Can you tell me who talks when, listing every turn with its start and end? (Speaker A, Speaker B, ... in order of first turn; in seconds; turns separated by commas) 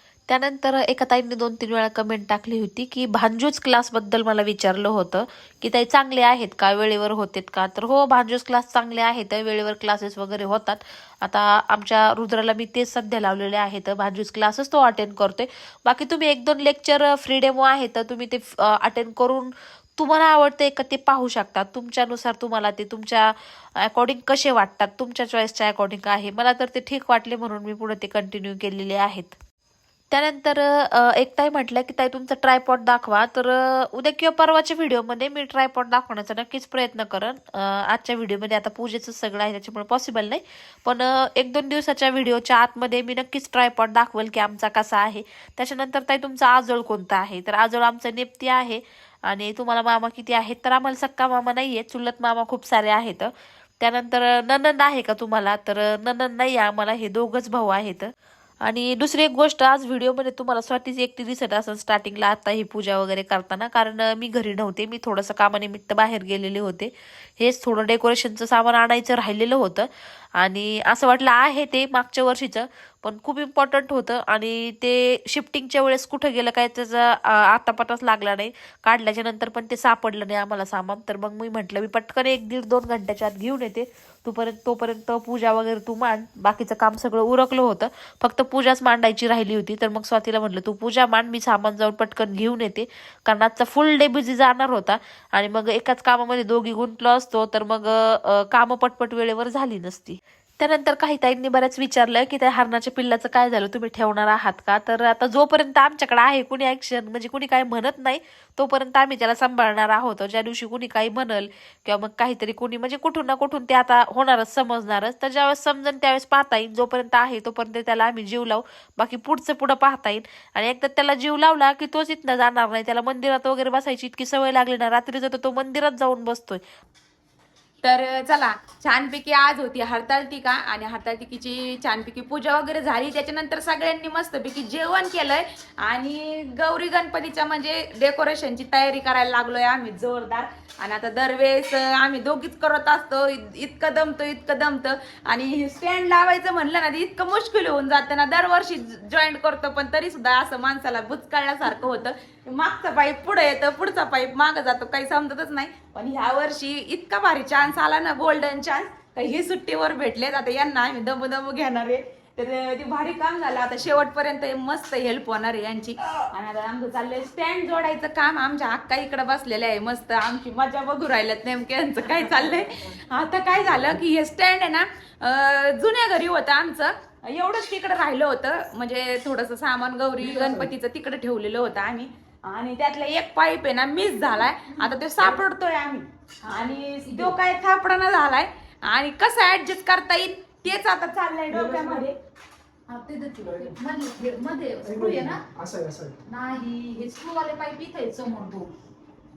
Speaker A: 0.3-29.4, Speaker A: 30.1-58.1, Speaker A: 58.6-126.6, Speaker B: 127.8-192.2, Speaker C: 180.2-180.7, Speaker D: 184.7-185.0, Speaker D: 186.4-187.3, Speaker C: 191.5-192.1, Speaker D: 192.9-195.4, Speaker C: 193.4-193.7, Speaker C: 194.8-196.2, Speaker D: 196.3-198.7